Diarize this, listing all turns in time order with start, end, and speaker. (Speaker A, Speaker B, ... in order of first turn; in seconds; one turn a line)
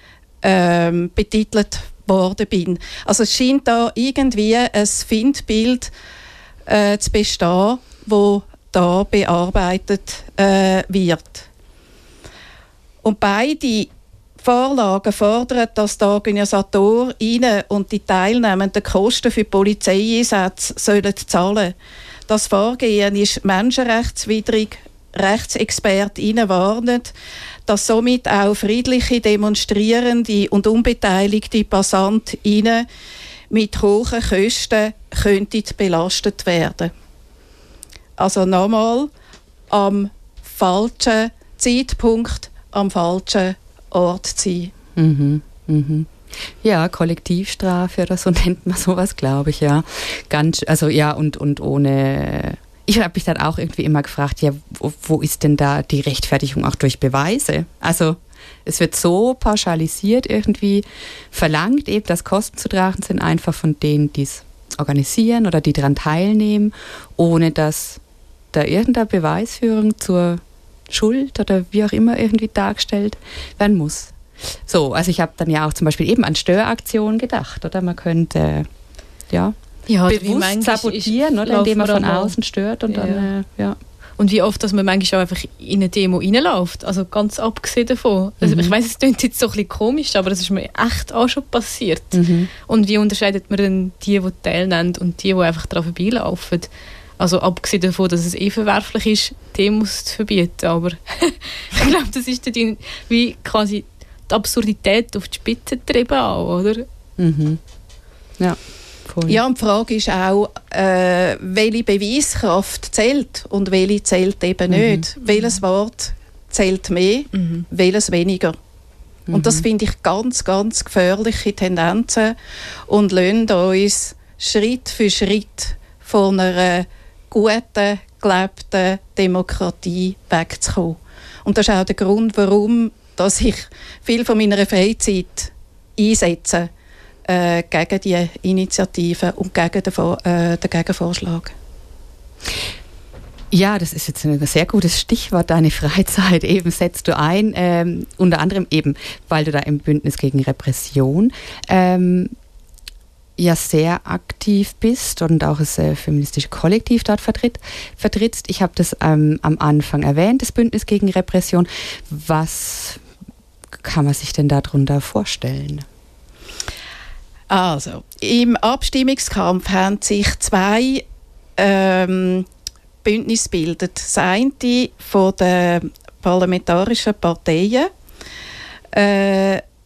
Speaker A: 0.4-5.9
Speaker A: 6.7-11.5
Speaker A: 13.0-21.7
Speaker A: 22.3-27.1
Speaker A: 27.7-32.9
Speaker A: 33.5-36.9
Speaker A: 38.2-39.1
Speaker A: 39.7-44.7
Speaker B: 44.9-68.0
Speaker B: 68.5-78.7
Speaker B: 79.3-83.8
Speaker C: 79.9-82.3
Speaker C: 82.9-83.3
Speaker C: 84.2-106.8
Speaker B: 88.4-88.7
Speaker B: 92.1-92.5
Speaker B: 107.2-107.6
Speaker B: 108.4-109.4
Speaker A: 109.3-118.6
Speaker B: 114.7-115.0
Speaker B: 119.3-119.6
Speaker A: 119.3-122.3
Speaker A: 122.9-136.7
Speaker A: 137.3-141.5
Speaker B: 143.5-152.3
Speaker B: 153.4-163.0
Speaker B: 163.8-165.8
Speaker A: 167.5-171.0
Speaker A: 171.6-172.4
Speaker A: 173.0-177.9
Speaker A: 178.9-179.6